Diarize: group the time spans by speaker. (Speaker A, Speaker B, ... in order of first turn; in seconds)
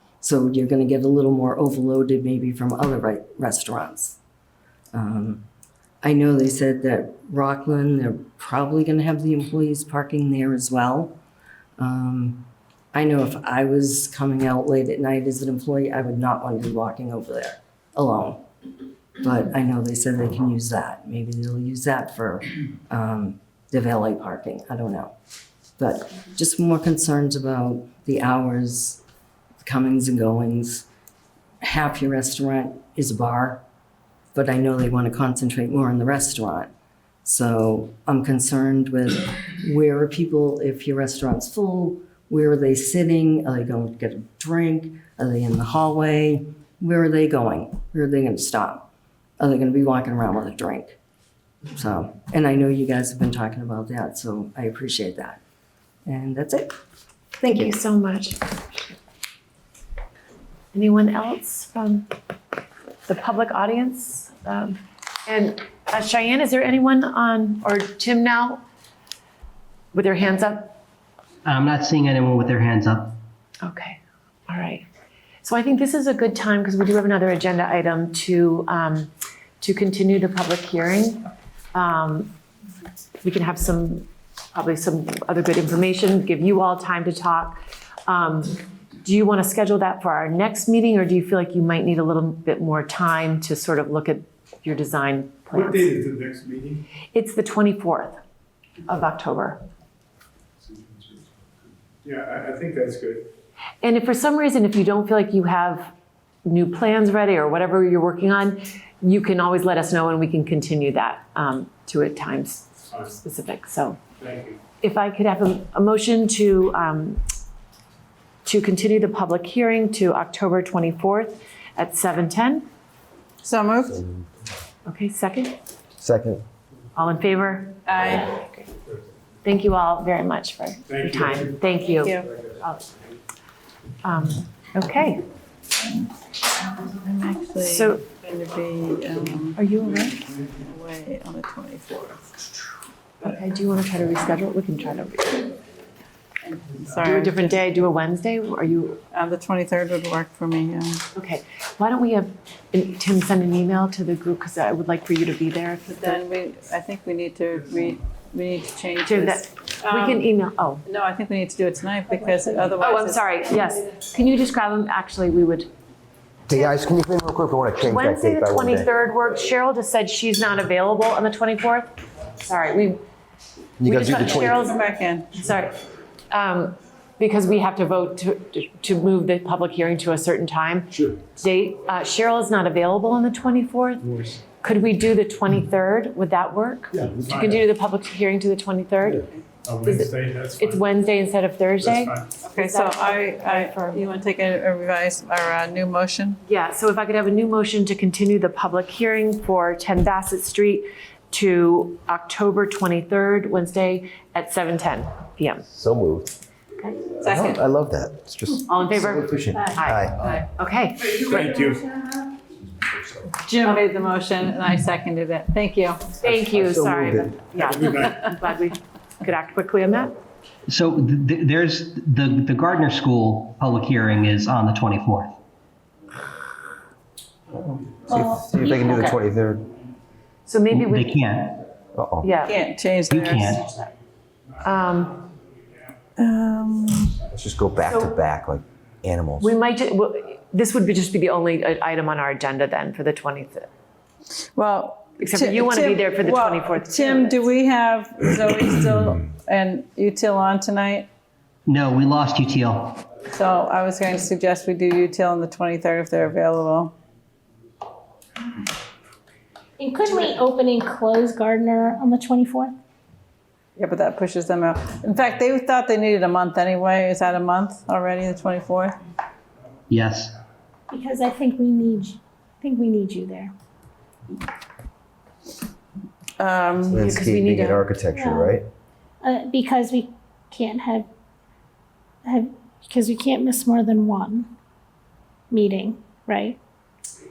Speaker A: 0.2-4.2, 4.9-5.4, 6.0-11.2, 11.8-18.5, 19.2-25.1, 25.8-29.0, 29.6-30.9, 31.6-33.6, 34.3-36.7, 37.2-48.9, 49.4-51.0, 51.7-55.4, 56.1-56.8
Speaker B: 57.4-58.5, 60.7-62.1, 63.1-68.6, 69.9-70.8, 73.6-74.9, 75.4-82.3, 83.2-95.9, 97.1-98.2, 98.8-99.6, 103.8-105.9, 106.5-114.0, 114.8-117.2, 118.5-122.7, 124.9-125.5, 127.0-128.7, 129.4-132.9, 134.0-135.3, 137.6-138.0, 139.6-140.2, 143.2-145.5, 146.9-149.0, 151.2-156.2, 159.0-160.8, 162.8-165.7, 167.8-173.0, 173.8-174.8, 175.3-175.8, 176.3-189.3, 189.8-194.0, 196.5-205.7, 208.7-211.6, 216.2-220.2, 228.6-229.2, 230.5-231.3, 232.2-232.6, 234.6-235.2, 237.8-238.2, 239.4-243.7, 245.2-247.5, 276.9-277.9
Speaker C: 71.5-73.2, 220.7-225.3, 230.7-231.4, 233.1-233.6, 251.7-252.8, 269.9-270.3
Speaker D: 95.5-96.8, 100.6-101.3, 102.0-103.3, 114.2-114.6, 130.9-131.8, 132.3-132.6, 184.1-184.4, 186.9-187.7, 189.6-190.9, 191.8-192.4, 211.1-212.0, 217.6-218.3
Speaker E: 123.4-124.0, 127.9-128.4, 131.9-132.3, 137.0-139.6, 140.6-142.3, 146.4-147.6, 149.1-151.0, 155.9-160.3, 160.9-163.3, 174.4-175.3, 192.4-196.4, 207.2-207.6, 213.4-216.0, 232.5-233.7, 236.2-237.3, 244.6-251.1, 253.3-256.9, 263.8-269.0, 276.4-277.1
Speaker F: 123.9-124.2, 126.0-126.4, 166.5-168.9, 173.8-174.7, 205.7-206.4, 207.2-210.4, 216.2-217.6, 227.7-229.7, 231.9-232.3, 237.3-239.5, 276.9-278.7
Speaker G: 259.8-262.7, 270.9-273.5, 278.1-278.6, 279.2-281.1, 282.2-284.5, 285.5-286.6